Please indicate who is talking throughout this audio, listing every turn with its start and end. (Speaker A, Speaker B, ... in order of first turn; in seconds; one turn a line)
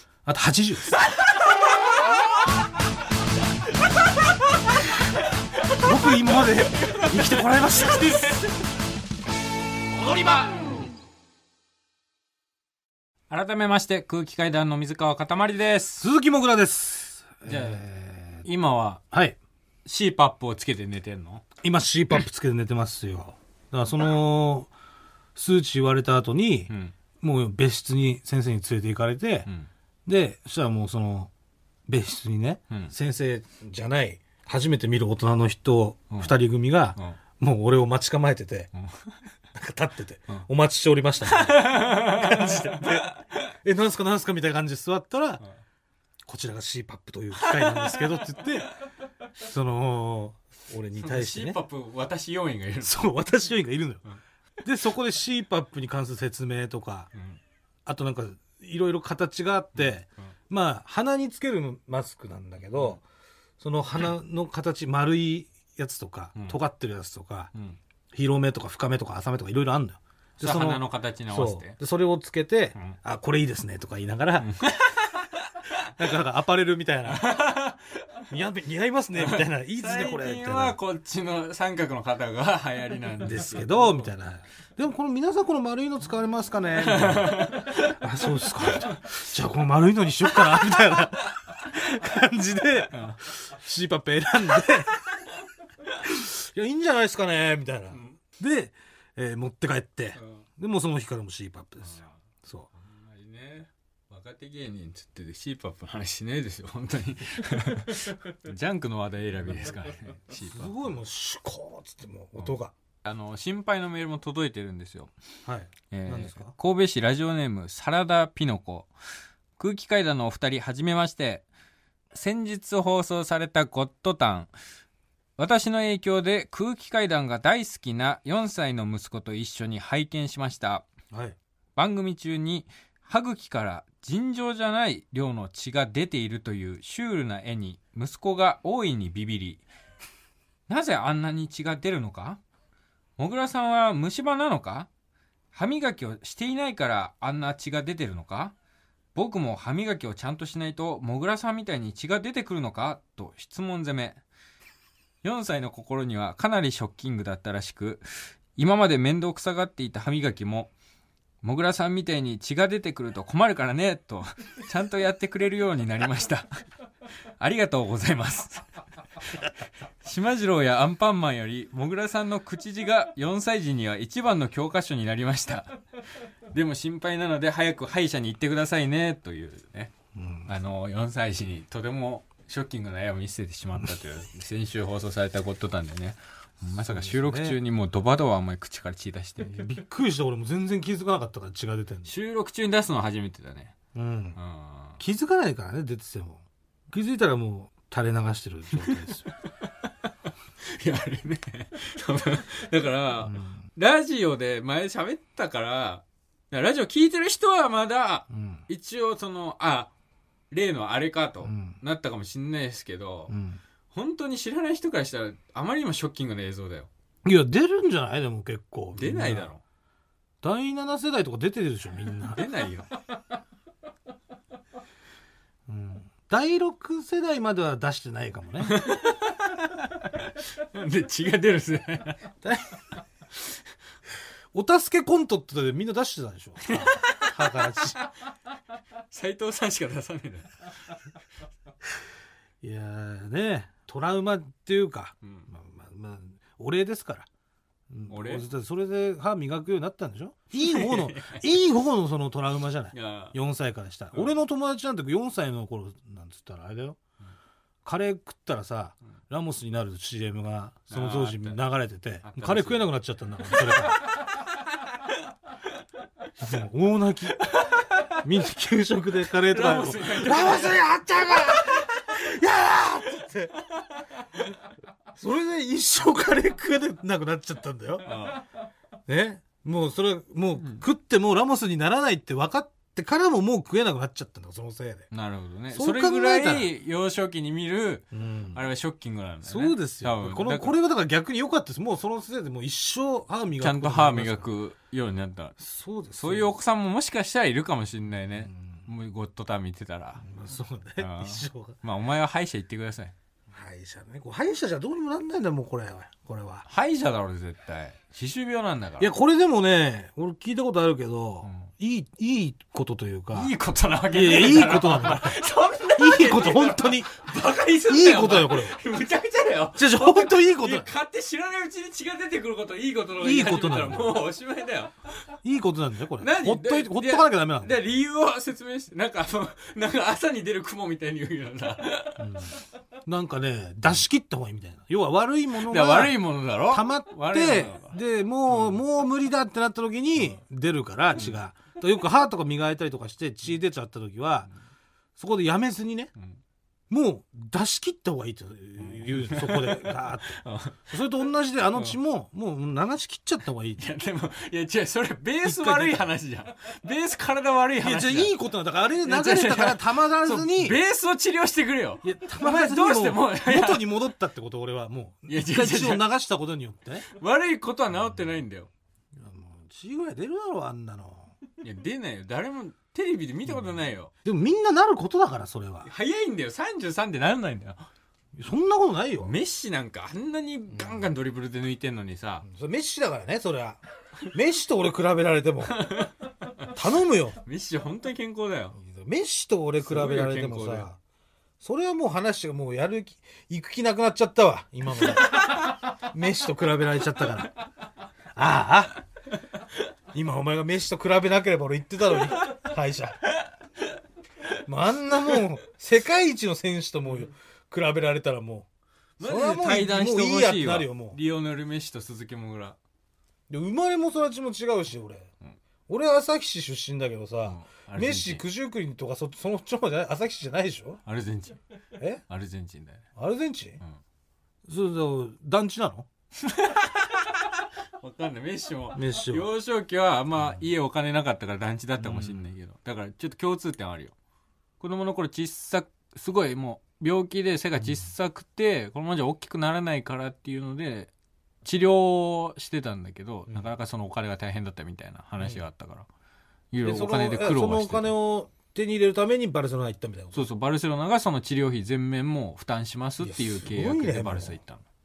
Speaker A: 0.2-0.9
Speaker A: 5.8-8.4
Speaker B: 6.7-8.5
Speaker B: 10.1-10.4
Speaker B: 13.3-16.0
Speaker A: 16.0-18.4
Speaker B: 17.4-17.8
Speaker B: 18.4-19.0
Speaker A: 19.1-19.4
Speaker B: 19.9-21.4
Speaker A: 21.6-24.7
Speaker A: 25.4-29.5
Speaker B: 26.7-26.9
Speaker A: 30.1-31.3
Speaker A: 31.9-38.7
Speaker B: 38.8-39.1
Speaker A: 39.5-43.1
Speaker B: 41.2-43.4
Speaker A: 43.6-45.4
Speaker A: 46.2-48.7
Speaker B: 47.3-48.5
Speaker A: 49.4-51.6
Speaker B: 51.0-53.1
Speaker A: 52.8-54.0
Speaker A: 54.6-57.1
Speaker A: 57.9-63.0
Speaker A: 63.6-67.5
Speaker A: 68.1-74.5
Speaker B: 70.4-71.7
Speaker B: 74.4-75.2
Speaker A: 76.0-77.2
Speaker B: 77.1-78.0
Speaker A: 78.3-80.8
Speaker B: 79.2-84.1
Speaker A: 83.2-95.0
Speaker B: 86.8-88.0
Speaker B: 88.6-89.0
Speaker B: 92.9-93.2
Speaker A: 96.0-102.7
Speaker B: 97.9-98.2
Speaker B: 102.8-110.7
Speaker A: 110.5-112.7
Speaker B: 113.0-115.1
Speaker A: 115.5-116.5
Speaker B: 115.9-118.9
Speaker B: 119.6-121.4
Speaker B: 122.1-124.5
Speaker B: 125.4-130.9
Speaker A: 131.1-131.4
Speaker B: 131.8-139.6
Speaker B: 140.7-142.4
Speaker B: 143.2-144.9
Speaker B: 145.5-148.5
Speaker B: 149.1-154.2
Speaker B: 155.2-160.7
Speaker B: 161.4-166.6
Speaker B: 167.4-168.7
Speaker B: 170.0-175.8
Speaker B: 176.5-179.9
Speaker A: 180.1-180.5
Speaker B: 180.5-189.7
Speaker A: 186.8-187.6
Speaker A: 189.4-192.1
Speaker B: 192.1-193.8
Speaker A: 193.9-194.4
Speaker B: 194.3-195.0
Speaker A: 195.0-199.2
Speaker B: 200.6-209.9
Speaker A: 203.2-203.6
Speaker A: 208.3-208.6
Speaker B: 210.5-213.3
Speaker A: 211.4-211.8
Speaker A: 213.3-213.6
Speaker B: 213.9-216.9
Speaker A: 217.2-219.5
Speaker B: 218.9-219.6
Speaker A: 220.4-222.5
Speaker B: 222.3-222.9
Speaker A: 225.7-228.8
Speaker B: 228.6-232.2
Speaker A: 234.5-238.0
Speaker B: 236.6-237.5
Speaker B: 239.1-240.7
Speaker A: 242.6-247.3
Speaker B: 245.2-245.5
Speaker A: 247.9-257.0
Speaker B: 248.1-248.4
Speaker B: 250.6-251.4
Speaker B: 252.9-253.3
Speaker A: 257.8-264.0
Speaker B: 260.9-261.6
Speaker B: 262.2-262.9
Speaker B: 263.4-264.2
Speaker A: 266.4-273.6
Speaker B: 267.5-268.2
Speaker B: 269.4-270.8
Speaker A: 275.1-278.1
Speaker B: 278.0-278.4
Speaker A: 279.1-285.1
Speaker B: 285.1-290.8
Speaker A: 285.7-286.7
Speaker A: 288.1-288.6
Speaker A: 289.4-294.5
Speaker B: 293.6-295.6
Speaker A: 295.6-296.5
Speaker B: 296.1-300.2
Speaker A: 298.4-298.8
Speaker A: 300.2-301.8
Speaker B: 301.0-303.1
Speaker A: 303.5-306.6
Speaker B: 306.7-309.1
Speaker A: 309.0-313.5
Speaker B: 311.4-311.7
Speaker B: 313.3-324.9
Speaker A: 314.1-315.4
Speaker A: 315.9-317.1
Speaker A: 317.9-318.8
Speaker A: 319.7-320.9
Speaker A: 323.2-324.2
Speaker A: 325.4-327.8
Speaker B: 326.2-332.5
Speaker A: 332.2-344.5
Speaker B: 335.6-338.0
Speaker B: 338.5-338.8
Speaker A: 345.2-346.1
Speaker A: 346.9-353.8
Speaker B: 348.8-350.9
Speaker B: 353.8-358.3
Speaker A: 355.4-356.0
Speaker A: 357.8-360.8
Speaker B: 359.0-363.9
Speaker A: 362.0-367.0
Speaker B: 365.3-366.1
Speaker B: 367.1-368.7
Speaker A: 369.1-371.3
Speaker B: 371.6-374.1
Speaker A: 374.2-375.9
Speaker B: 375.8-377.9
Speaker A: 378.4-379.3
Speaker B: 379.2-382.4
Speaker A: 380.7-381.1
Speaker A: 382.4-385.9
Speaker B: 385.7-386.7
Speaker A: 386.7-387.4
Speaker B: 387.4-388.8
Speaker A: 388.8-391.0
Speaker B: 389.8-390.9
Speaker A: 391.6-397.5
Speaker A: 398.3-398.9
Speaker A: 400.1-403.2
Speaker A: 404.6-408.7
Speaker B: 409.2-412.8
Speaker A: 409.2-411.2
Speaker A: 413.5-415.3
Speaker A: 415.9-421.0
Speaker B: 417.4-418.4
Speaker B: 421.1-421.6
Speaker A: 422.0-422.2
Speaker B: 422.3-423.0
Speaker A: 423.1-423.8
Speaker A: 424.6-426.1
Speaker B: 426.4-427.3
Speaker B: 428.0-434.1
Speaker A: 428.9-429.5
Speaker A: 432.0-432.4
Speaker B: 434.8-441.1
Speaker B: 441.6-446.1
Speaker B: 446.7-448.1
Speaker A: 446.8-450.4
Speaker B: 450.3-454.8
Speaker A: 453.2-454.6